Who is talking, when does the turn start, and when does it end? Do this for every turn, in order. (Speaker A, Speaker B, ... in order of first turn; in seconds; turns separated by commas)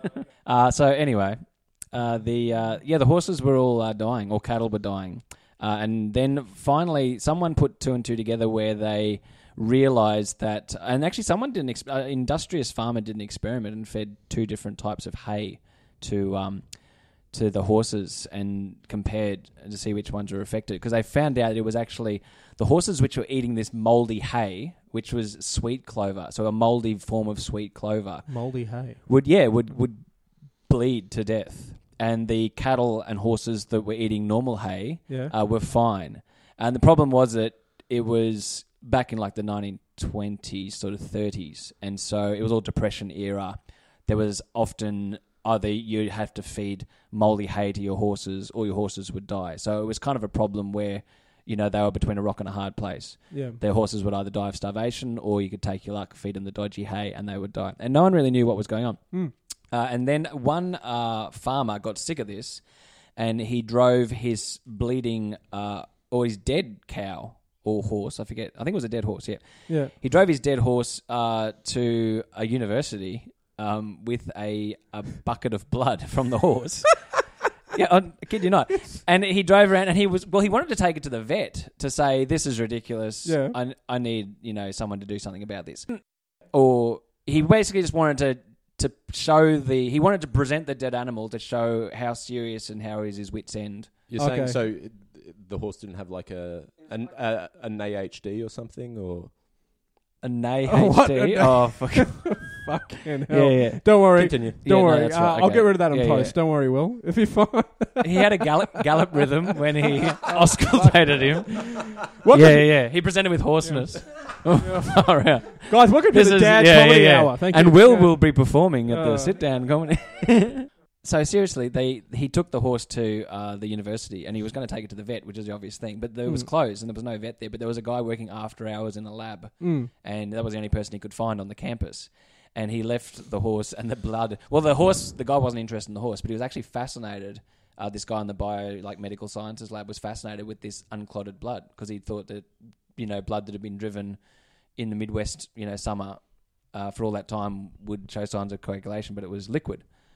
Speaker A: 0.4-59.1, Speaker B: 28.3-29.0, Speaker B: 35.1-35.3, Speaker B: 53.3-53.6, Speaker A: 59.7-62.6, Speaker A: 63.1-94.0, Speaker B: 83.2-83.6, Speaker C: 94.1-99.3, Speaker B: 94.2-94.6, Speaker A: 100.2-106.4, Speaker B: 100.7-108.4, Speaker C: 104.2-104.5, Speaker A: 108.0-144.2, Speaker B: 109.9-112.8, Speaker B: 113.6-119.3, Speaker B: 129.6-129.9, Speaker A: 144.8-149.9